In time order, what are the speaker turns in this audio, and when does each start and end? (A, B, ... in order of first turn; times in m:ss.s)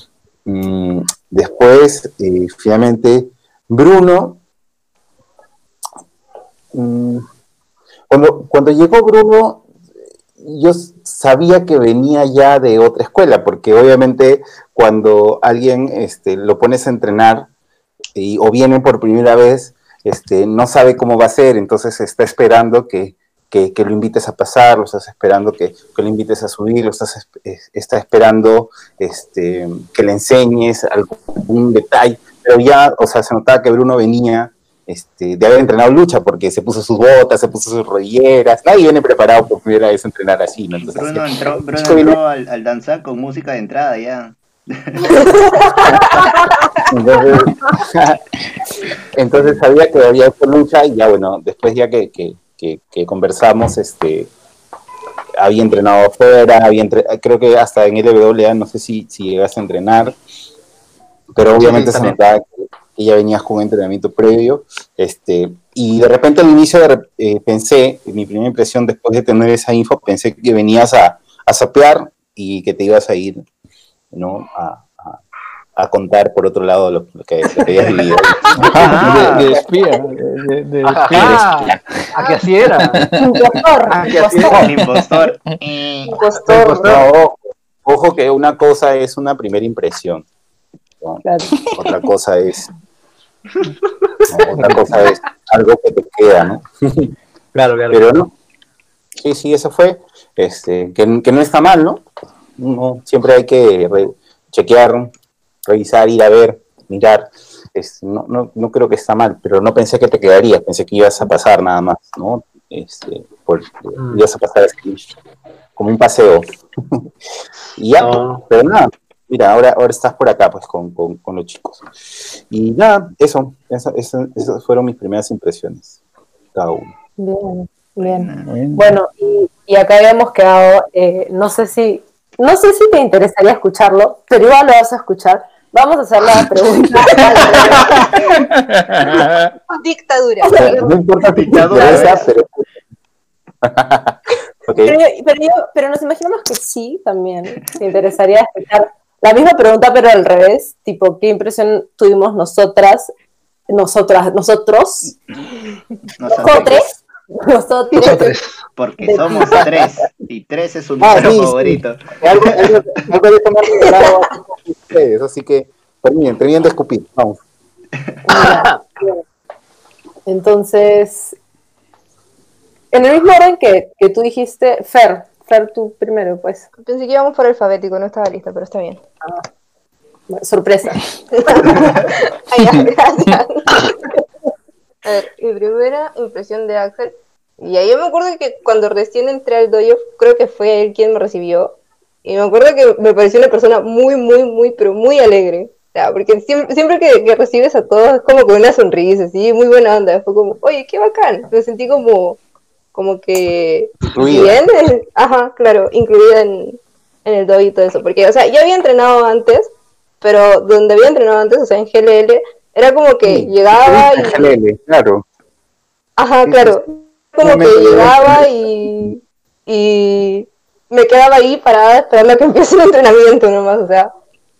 0:00.5-0:04.4 A
0:06.7-0:07.2 A
0:08.1-0:09.6 A
0:10.4-0:17.5 A
0:18.2-0:42.2 A
0:40.8-0:45.3 B
0:45.9-0:46.2 A
0:46.9-0:48.2 A
0:49.1-0:54.3 A
0:55.4-1:00.2 A
1:01.3-1:13.4 A
1:01.6-1:02.1 C
1:14.1-1:15.2 A
1:15.8-1:19.7 A
1:18.6-1:21.6 D
1:18.7-1:19.5 B
1:20.8-1:23.0 C
1:21.1-1:21.8 A
1:23.2-1:24.6 E
1:23.9-1:24.6 A
1:24.0-1:26.1 B
1:26.1-1:26.8 E
1:26.4-1:27.0 D
1:26.7-1:30.3 A
1:31.2-1:31.5 E
1:31.8-1:32.7 A
1:34.3-1:37.1 A
1:34.6-1:35.1 D
1:37.5-1:38.1 C
1:37.9-1:38.3 A
1:39.2-1:42.0 A
1:42.6-1:45.1 A
1:45.7-1:55.0 A
1:54.0-1:54.2 C
1:55.8-1:57.0 A
1:57.8-2:01.8 A
1:58.0-1:58.4 C
2:02.5-2:06.0 A
2:06.5-2:06.9 A
2:07.2-2:18.0 E
2:08.0-2:08.5 B
2:08.4-2:08.8 D
2:18.4-2:19.6 D
2:19.7-2:20.5 F
2:20.4-2:21.0 E
2:20.5-2:22.7 A
2:21.3-2:22.3 B
2:21.6-2:22.3 E
2:23.6-2:25.0 A
2:24.8-2:33.1 E
2:33.7-2:35.2 E
2:36.2-2:36.8 B
2:36.4-2:36.9 E
2:36.5-2:36.9 A
2:37.4-2:38.4 E
2:38.0-2:38.6 C
2:38.8-2:42.7 B
2:39.0-2:39.6 E
2:41.0-2:47.4 A
2:48.3-2:49.2 E
2:50.3-2:51.4 E
2:52.9-2:56.7 E
2:56.8-2:59.0 F
3:00.3-3:01.0 E
3:01.4-3:03.9 F
3:05.0-3:22.4 F
3:22.9-3:34.5 F
3:24.1-3:24.6 A
3:33.2-3:35.2 A
3:36.2-3:44.1 F
3:36.4-3:36.8 A
3:37.4-3:38.5 A